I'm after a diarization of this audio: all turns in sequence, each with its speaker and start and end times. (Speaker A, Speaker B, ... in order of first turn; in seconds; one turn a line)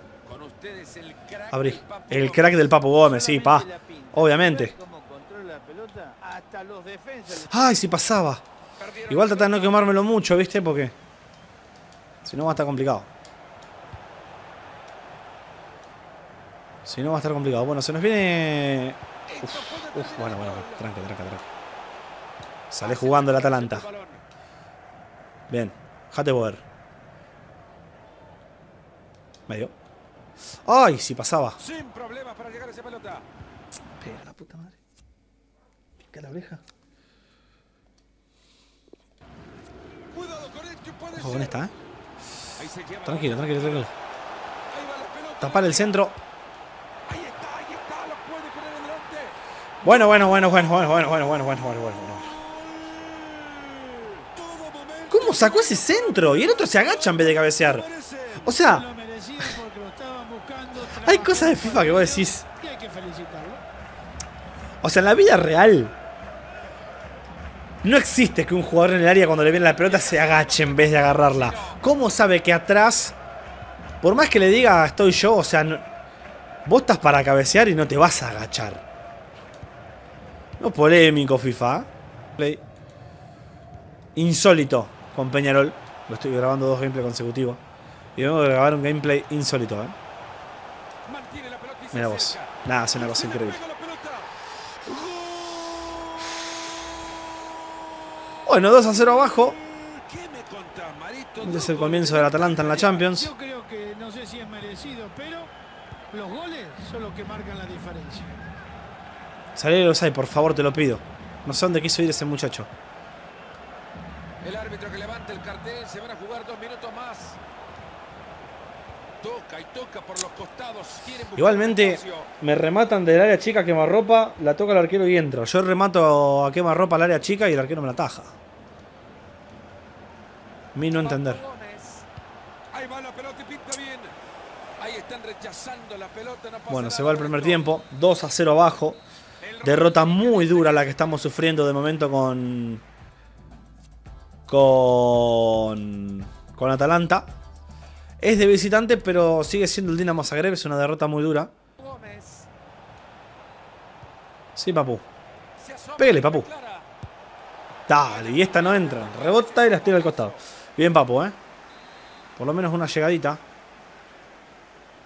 Speaker A: 0.2-2.8
Speaker B: 1.5-4.7
Speaker C: 2.9-7.7
Speaker B: 7.5-8.4
Speaker A: 8.8-9.9
Speaker B: 9.1-10.9
Speaker B: 12.2-13.1
Speaker B: 16.9-21.4
Speaker A: 19.3-20.9
Speaker B: 22.7-23.9
Speaker A: 22.8-24.2
Speaker B: 25.5-26.6
Speaker B: 29.5-29.7
Speaker B: 30.6-31.6
Speaker A: 31.6-33.2
Speaker B: 34.0-34.8
Speaker B: 36.0-36.6
Speaker A: 40.1-41.6
Speaker B: 41.1-41.7
Speaker A: 42.5-43.9
Speaker B: 43.0-43.9
Speaker A: 44.7-46.0
Speaker B: 45.4-46.2
Speaker A: 47.0-51.1
Speaker B: 49.8-52.3
Speaker A: 52.2-58.5
Speaker B: 55.1-58.9
Speaker C: 58.5-63.6
Speaker B: 60.9-62.5
Speaker B: 64.8-65.9
Speaker B: 67.8-73.2
Speaker A: 69.7-71.8
Speaker B: 74.0-75.8
Speaker B: 76.6-78.8
Speaker B: 80.6-82.6
Speaker B: 84.2-87.6
Speaker B: 88.2-90.0
Speaker A: 91.0-94.3
Speaker B: 91.9-93.6
Speaker A: 94.8-96.3
Speaker B: 98.4-99.6
Speaker A: 98.9-103.1
Speaker B: 101.4-103.3
Speaker C: 103.0-105.5
Speaker C: 106.1-108.3
Speaker B: 109.5-112.7
Speaker A: 114.4-117.4
Speaker A: 119.2-122.3
Speaker B: 121.3-128.3
Speaker B: 130.7-131.4
Speaker A: 130.9-132.1
Speaker A: 132.7-134.1
Speaker A: 134.8-137.7
Speaker B: 136.7-139.0
Speaker A: 139.4-141.2
Speaker B: 139.6-142.8
Speaker B: 144.5-147.3
Speaker B: 148.2-151.5
Speaker A: 151.8-152.5
Speaker B: 154.6-155.0
Speaker A: 155.6-156.9
Speaker B: 156.0-156.5
Speaker B: 157.9-161.4
Speaker A: 158.0-160.4
Speaker B: 162.3-163.4